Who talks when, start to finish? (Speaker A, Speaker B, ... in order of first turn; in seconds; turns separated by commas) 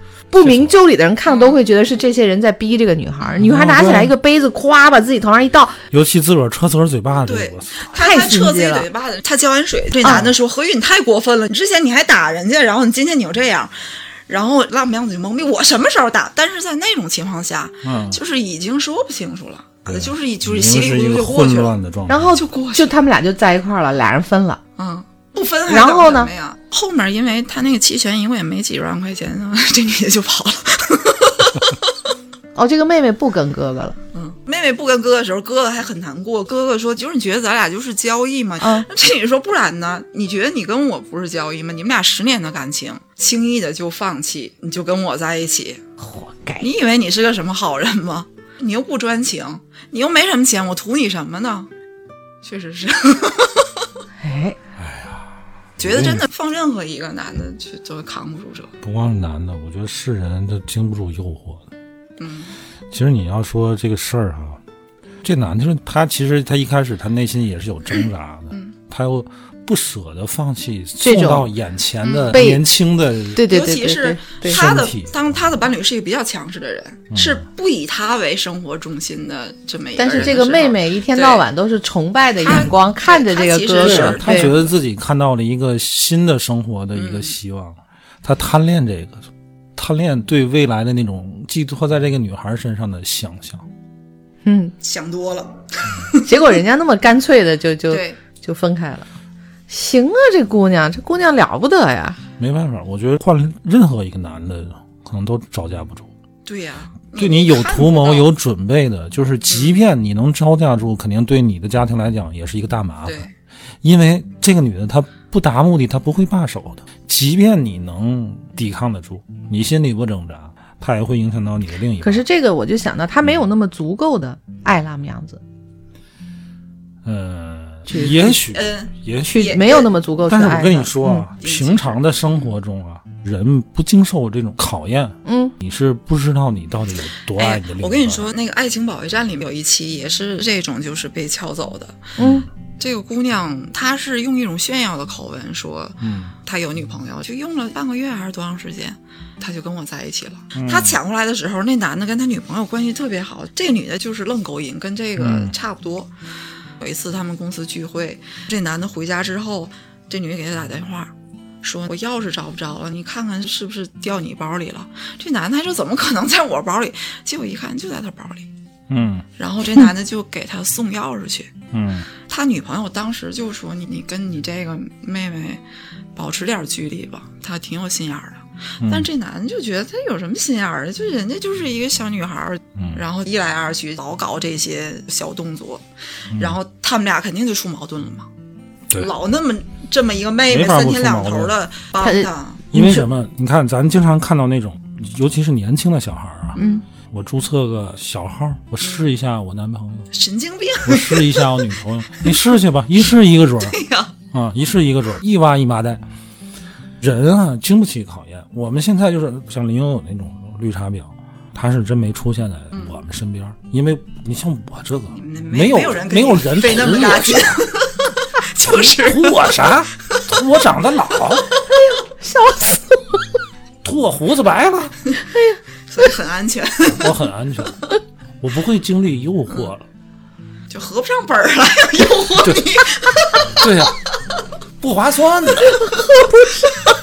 Speaker A: 0.3-5.8, Speaker B: 0.4-0.8, Speaker C: 1.3-1.6, Speaker B: 3.4-4.1, Speaker B: 5.9-7.8, Speaker C: 7.2-13.7, Speaker A: 7.9-8.9, Speaker A: 10.0-10.3, Speaker C: 14.3-21.8, Speaker B: 17.8-18.2, Speaker B: 19.9-22.4, Speaker A: 22.1-24.6, Speaker C: 22.3-22.9, Speaker C: 24.8-31.9, Speaker A: 25.7-26.3, Speaker A: 32.6-34.0, Speaker C: 34.1-45.8, Speaker A: 38.6-38.9, Speaker A: 46.0-46.7, Speaker C: 46.6-51.7, Speaker C: 52.4-53.9, Speaker A: 54.2-54.6, Speaker B: 54.8-56.3, Speaker C: 55.8-58.7, Speaker B: 58.8-61.6, Speaker C: 62.2-62.5, Speaker B: 62.9-64.6, Speaker B: 65.2-73.5, Speaker A: 71.0-71.5, Speaker C: 72.0-72.5, Speaker A: 72.3-72.6, Speaker A: 73.3-74.6, Speaker C: 73.5-81.5, Speaker B: 74.4-75.1, Speaker B: 77.1-77.4, Speaker A: 80.0-84.5, Speaker C: 82.4-84.7, Speaker B: 83.8-89.2, Speaker C: 86.9-87.3, Speaker B: 89.8-93.7, Speaker A: 94.5-94.7, Speaker C: 94.8-96.2, Speaker A: 96.2-99.1, Speaker C: 97.9-98.2, Speaker A: 99.7-102.2, Speaker B: 102.4-106.1, Speaker C: 106.5-108.3, Speaker B: 107.2-113.3, Speaker C: 109.5-109.8, Speaker C: 113.0-113.3, Speaker B: 113.8-122.2, Speaker A: 122.0-125.4, Speaker B: 127.0-129.6, Speaker A: 127.9-128.4, Speaker C: 128.4-129.9, Speaker A: 129.3-131.3, Speaker B: 130.2-138.3, Speaker C: 131.4-132.2, Speaker A: 135.2-135.5, Speaker C: 137.4-142.1, Speaker B: 142.2-142.5, Speaker A: 142.2-142.4, Speaker C: 142.8-156.1, Speaker B: 146.0-146.3, Speaker B: 150.5-151.0, Speaker B: 155.2-155.5, Speaker C: 156.8-161.1, Speaker C: 161.6-168.5, Speaker B: 168.9-169.2, Speaker C: 169.4-171.5, Speaker B: 171.7-172.1, Speaker C: 172.3-175.6, Speaker C: 176.2-188.3, Speaker B: 178.8-179.1, Speaker B: 182.8-183.0, Speaker C: 188.9-192.6, Speaker B: 190.5-191.5, Speaker A: 192.0-193.1, Speaker B: 192.7-200.1, Speaker C: 196.6-196.8, Speaker C: 200.1-201.6, Speaker B: 200.8-203.8, Speaker C: 203.6-204.1, Speaker B: 204.3-206.0, Speaker B: 207.0-217.6, Speaker C: 212.7-213.0, Speaker C: 215.1-219.5, Speaker B: 218.7-221.5, Speaker A: 221.7-223.2, Speaker B: 223.8-224.9, Speaker A: 225.3-225.6, Speaker C: 225.9-227.2, Speaker B: 226.9-227.8, Speaker B: 228.4-229.8, Speaker C: 230.7-233.6, Speaker B: 233.6-234.0, Speaker B: 234.8-235.9, Speaker A: 235.8-236.7